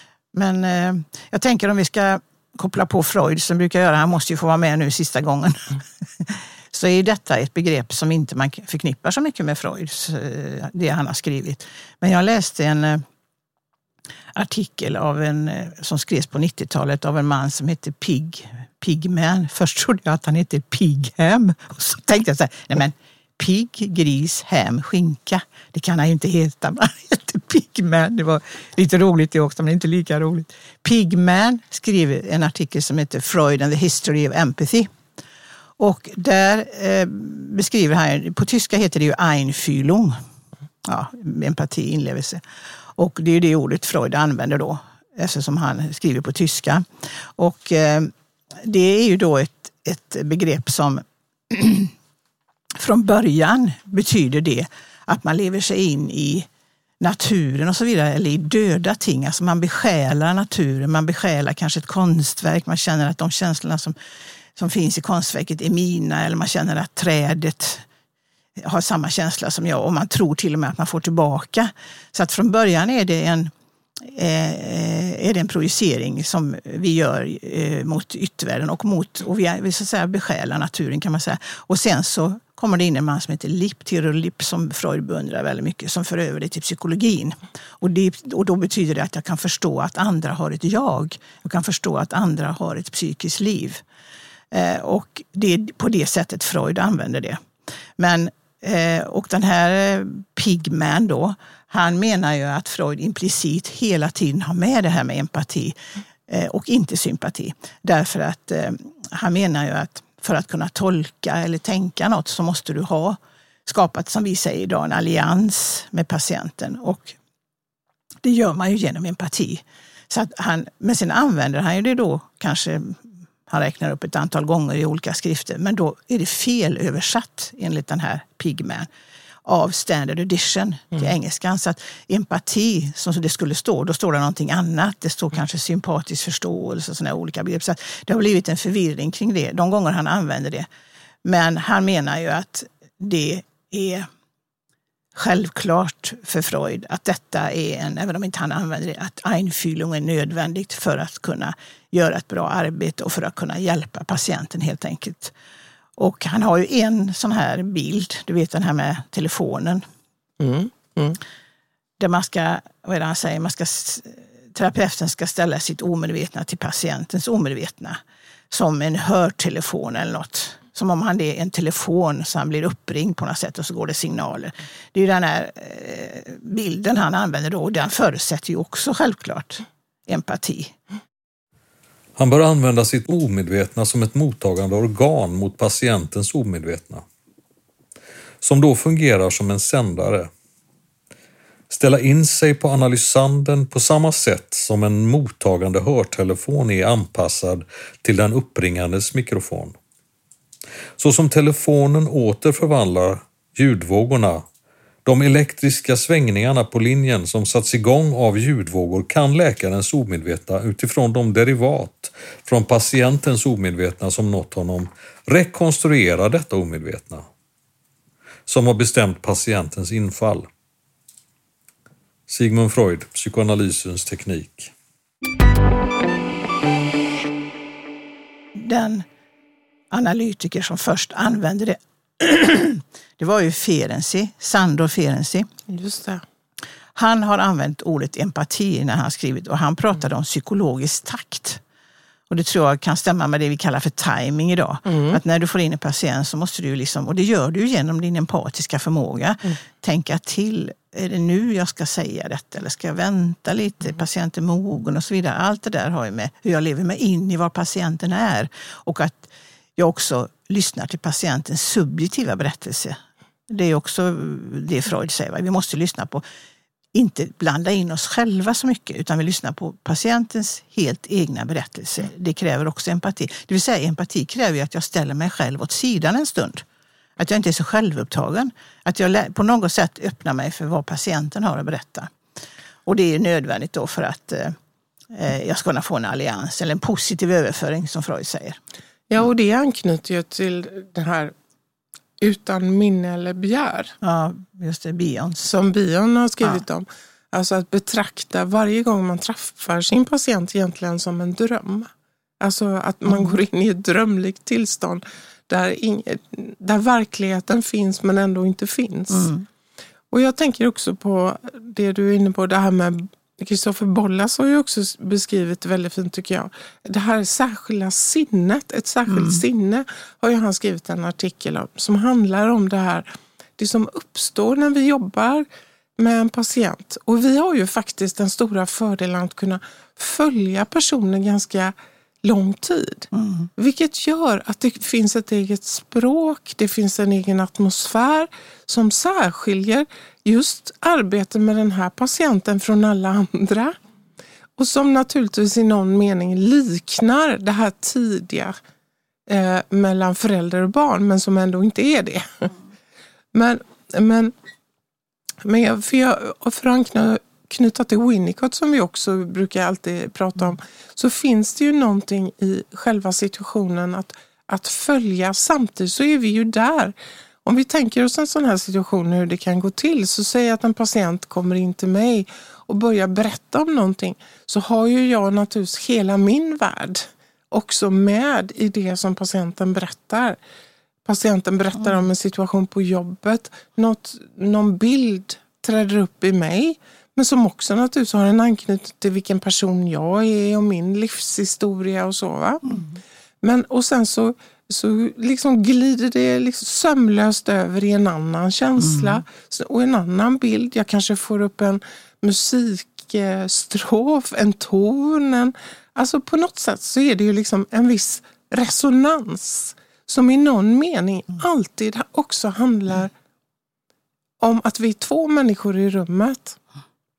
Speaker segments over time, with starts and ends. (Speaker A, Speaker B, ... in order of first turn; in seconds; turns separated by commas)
Speaker A: 0.3-13.0, Speaker A: 14.3-34.9, Speaker A: 35.8-40.1, Speaker A: 40.8-42.4, Speaker A: 43.0-51.9, Speaker A: 52.8-56.5, Speaker A: 57.0-64.0, Speaker A: 64.5-67.8, Speaker A: 68.6-93.8, Speaker A: 94.5-97.5, Speaker A: 98.0-105.8, Speaker A: 106.3-117.2, Speaker A: 118.2-128.9, Speaker A: 129.4-140.7, Speaker A: 141.2-144.1, Speaker A: 145.1-155.3, Speaker A: 156.0-159.8, Speaker B: 160.4-161.2, Speaker A: 162.0-180.7, Speaker C: 182.2-187.0, Speaker C: 188.4-190.3, Speaker C: 191.7-199.7, Speaker C: 201.0-204.4, Speaker C: 205.0-217.2, Speaker C: 218.5-220.5, Speaker C: 222.3-224.7, Speaker A: 228.5-229.1, Speaker A: 229.9-235.5, Speaker B: 235.7-236.2, Speaker A: 236.9-241.6, Speaker A: 242.3-263.0, Speaker B: 244.9-245.2, Speaker A: 263.5-266.2, Speaker A: 266.9-276.6, Speaker A: 277.2-282.1, Speaker A: 282.9-284.6, Speaker A: 285.1-288.6, Speaker B: 289.1-291.3, Speaker B: 292.2-293.9, Speaker A: 294.0-295.5, Speaker B: 295.4-309.3, Speaker A: 309.1-309.4, Speaker B: 310.1-325.5, Speaker A: 319.1-319.4, Speaker B: 326.0-343.8, Speaker A: 333.1-333.5, Speaker B: 344.6-348.5, Speaker B: 349.3-352.5, Speaker B: 353.3-354.3, Speaker B: 355.4-380.4, Speaker B: 381.0-392.6, Speaker B: 393.4-413.1, Speaker A: 398.8-399.2, Speaker B: 414.4-416.6